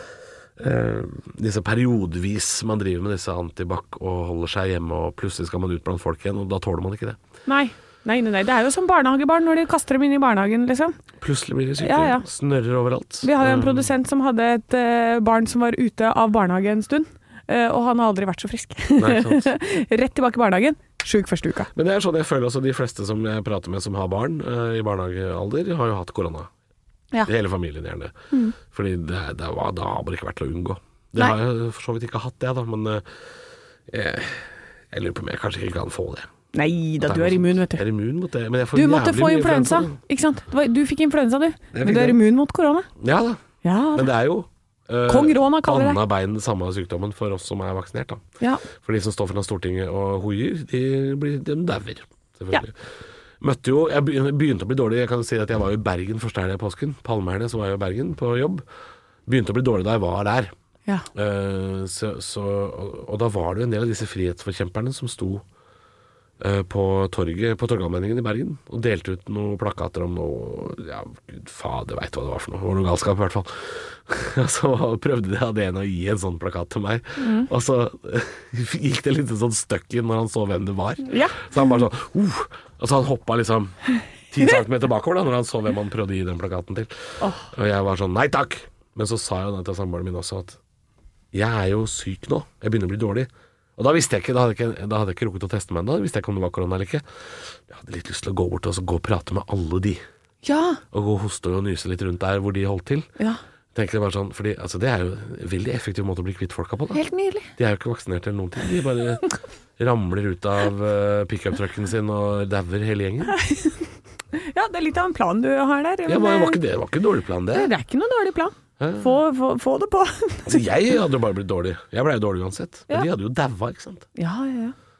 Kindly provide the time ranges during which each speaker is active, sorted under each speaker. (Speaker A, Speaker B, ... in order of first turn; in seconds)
Speaker A: 0.6-7.2, 11.2-13.9, 19.0-19.5, 21.7-26.5, 27.2-33.0, 33.9-36.3, 37.0-40.0, 41.7-42.2, 43.0-43.4, 43.9-48.2, 48.8-52.8, 53.4-58.6, 59.2-60.5, 61.1-65.4, 66.4-83.8, 84.3-90.6, 91.3-97.0, 97.7-100.0, 100.9-103.1, 103.7-107.0, 107.5-109.2, 109.8-113.4, 116.0-117.7, 118.8-119.1, 120.5-124.0
Speaker B: 7.5-10.9, 11.8-12.3, 13.2-21.7, 36.5-37.8, 38.7-42.9, 43.6-44.1, 45.1-46.0, 48.4-48.6, 77.2-77.5, 81.0-81.7, 87.2-87.5, 100.4-100.8, 106.9-107.5, 113.3-116.6, 117.5-120.6, 124.2-124.7